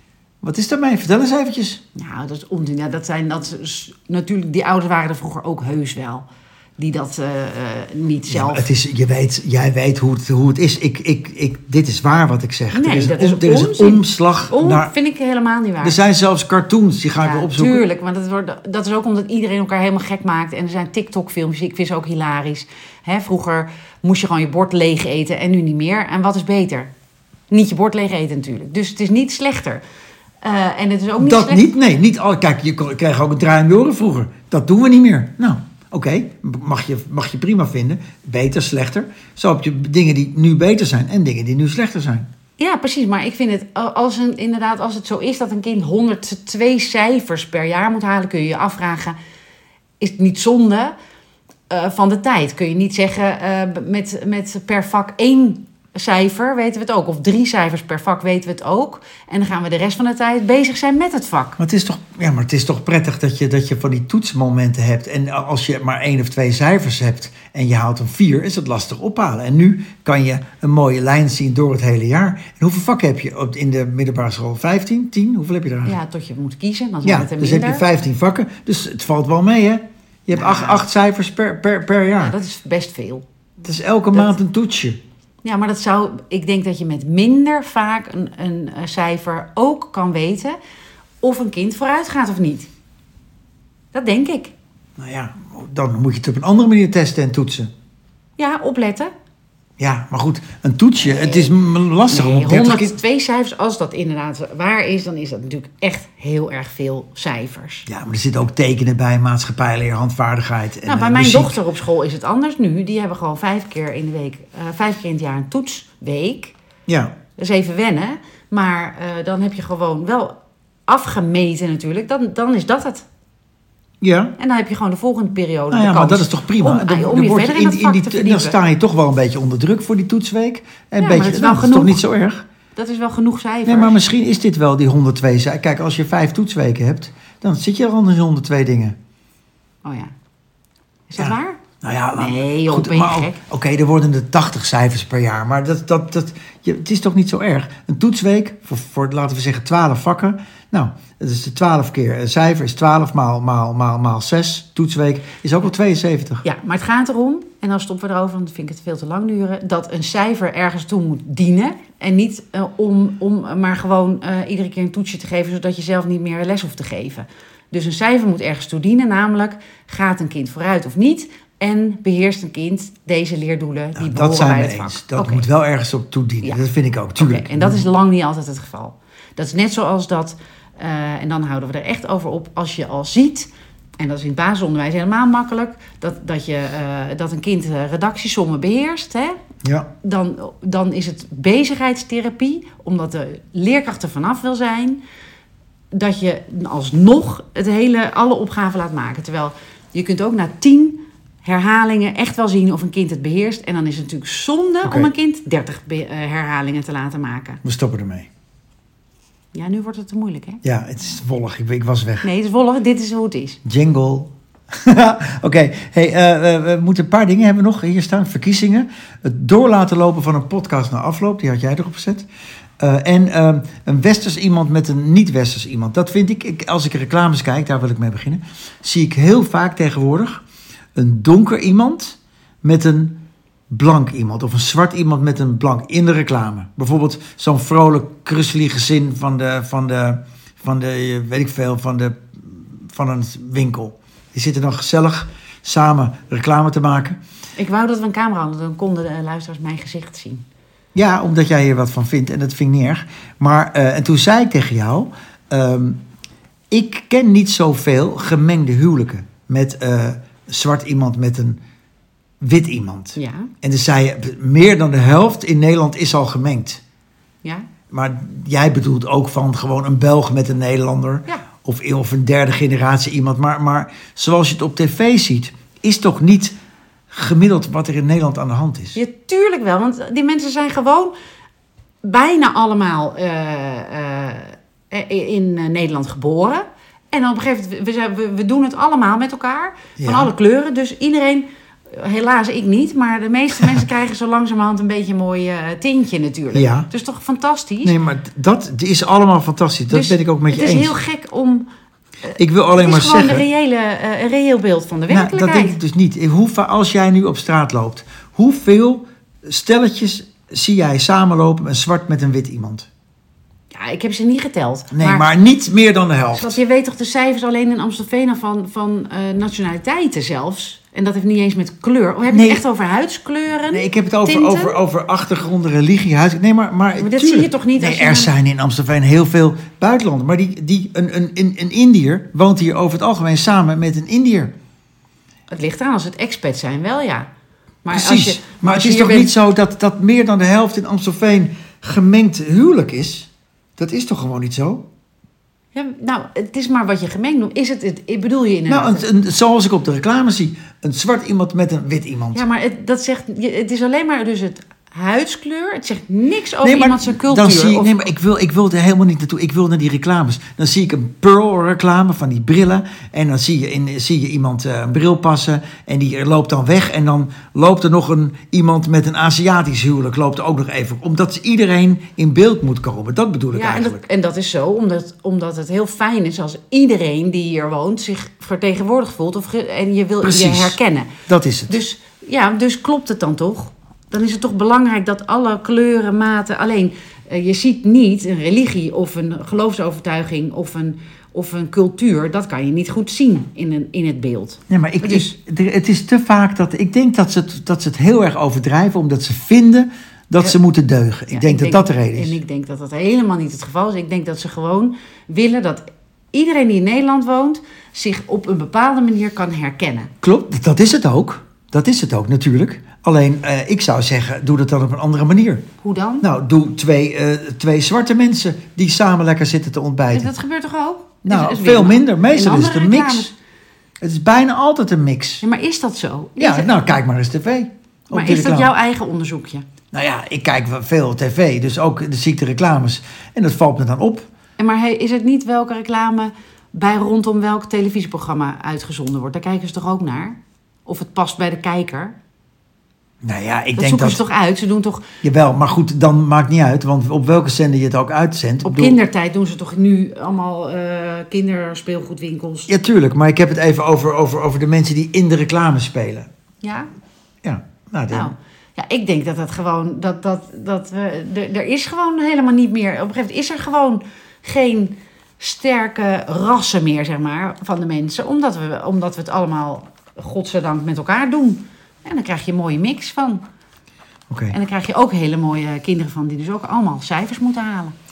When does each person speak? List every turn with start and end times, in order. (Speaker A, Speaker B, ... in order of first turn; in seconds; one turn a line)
Speaker A: 0.4-1.8
Speaker B: 1.9-6.3
Speaker B: 6.8-8.7
Speaker A: 8.3-14.9
Speaker B: 12.7-16.0
Speaker A: 15.8-17.8
Speaker B: 17.2-26.9
Speaker B: 27.5-29.8
Speaker B: 30.4-31.7
Speaker A: 31.2-42.3
Speaker B: 42.6-49.1
Speaker B: 50.0-50.9
Speaker B: 51.7-61.6
Speaker A: 61.6-76.0
Speaker B: 75.8-77.9
Speaker A: 77.0-82.3
Speaker B: 80.3-80.8
Speaker B: 82.2-83.2
Speaker A: 83.6-85.0
Speaker B: 85.4-90.5
Speaker B: 91.2-92.7
Speaker B: 93.9-94.5
Speaker A: 95.0-97.7
Speaker B: 98.4-99.1
Speaker A: 99.8-102.9
Speaker B: 101.0-101.5
Speaker B: 102.1-107.9
Speaker A: 107.9-111.6
Speaker B: 110.8-116.5
Speaker A: 116.9-117.1
Speaker B: 117.4-120.4
Speaker B: 120.9-123.0
Speaker A: 124.0-124.3
Speaker B: 124.4-128.6
Speaker A: 125.7-132.4
Speaker B: 131.0-132.0
Speaker B: 132.8-134.0
Speaker A: 133.7-138.9
Speaker B: 139.8-140.1
Speaker B: 141.1-141.6
Speaker A: 141.2-156.4
Speaker B: 142.2-143.4
Speaker B: 156.4-175.5
Speaker A: 173.9-177.8
Speaker B: 177.2-183.5
Speaker B: 184.0-189.4
Speaker A: 189.6-189.9
Speaker B: 190.0-195.0
Speaker B: 195.9-207.6
Speaker A: 204.8-205.1
Speaker A: 207.6-208.3
Speaker B: 209.5-210.6
Speaker A: 210.6-212.3
Speaker B: 212.2-213.6
Speaker A: 213.6-222.3
Speaker A: 222.8-230.4
Speaker A: 230.9-233.2
Speaker A: 233.7-247.2
Speaker B: 247.6-250.4
Speaker A: 250.9-256.0
Speaker A: 256.7-261.6
Speaker A: 262.4-266.8
Speaker B: 263.1-263.5
Speaker A: 267.9-276.5
Speaker A: 277.1-279.0
Speaker B: 278.9-281.1
Speaker B: 282.0-297.9
Speaker A: 290.0-290.3
Speaker A: 296.5-296.9
Speaker A: 297.8-300.9
Speaker B: 299.9-301.7
Speaker B: 302.2-305.8
Speaker A: 302.4-303.4
Speaker A: 305.1-312.9
Speaker B: 313.7-315.3
Speaker A: 314.9-316.6
Speaker B: 316.3-324.8
Speaker A: 322.3-322.6
Speaker A: 323.7-334.5
Speaker B: 326.9-328.3
Speaker B: 335.5-337.3
Speaker B: 337.8-339.3
Speaker A: 337.9-344.9
Speaker B: 345.7-349.1
Speaker A: 348.7-352.4
Speaker B: 352.3-358.1
Speaker A: 356.6-374.0
Speaker B: 373.5-381.1
Speaker A: 380.2-381.8
Speaker B: 381.7-395.3
Speaker A: 394.7-402.4
Speaker B: 401.3-410.1
Speaker A: 410.2-415.6
Speaker B: 415.8-416.2
Speaker A: 416.2-420.3
Speaker B: 420.1-423.3
Speaker A: 421.2-423.3
Speaker A: 424.0-425.4
Speaker B: 425.4-426.7
Speaker A: 426.4-428.7
Speaker B: 428.1-429.6
Speaker A: 429.9-434.3
Speaker B: 434.6-442.1
Speaker A: 443.2-444.2
Speaker B: 443.8-445.0
Speaker A: 445.2-449.0
Speaker B: 448.6-452.7
Speaker A: 452.7-456.3
Speaker B: 456.6-456.9
Speaker A: 457.4-458.3
Speaker B: 458.1-473.4
Speaker A: 474.3-474.6
Speaker B: 474.5-477.9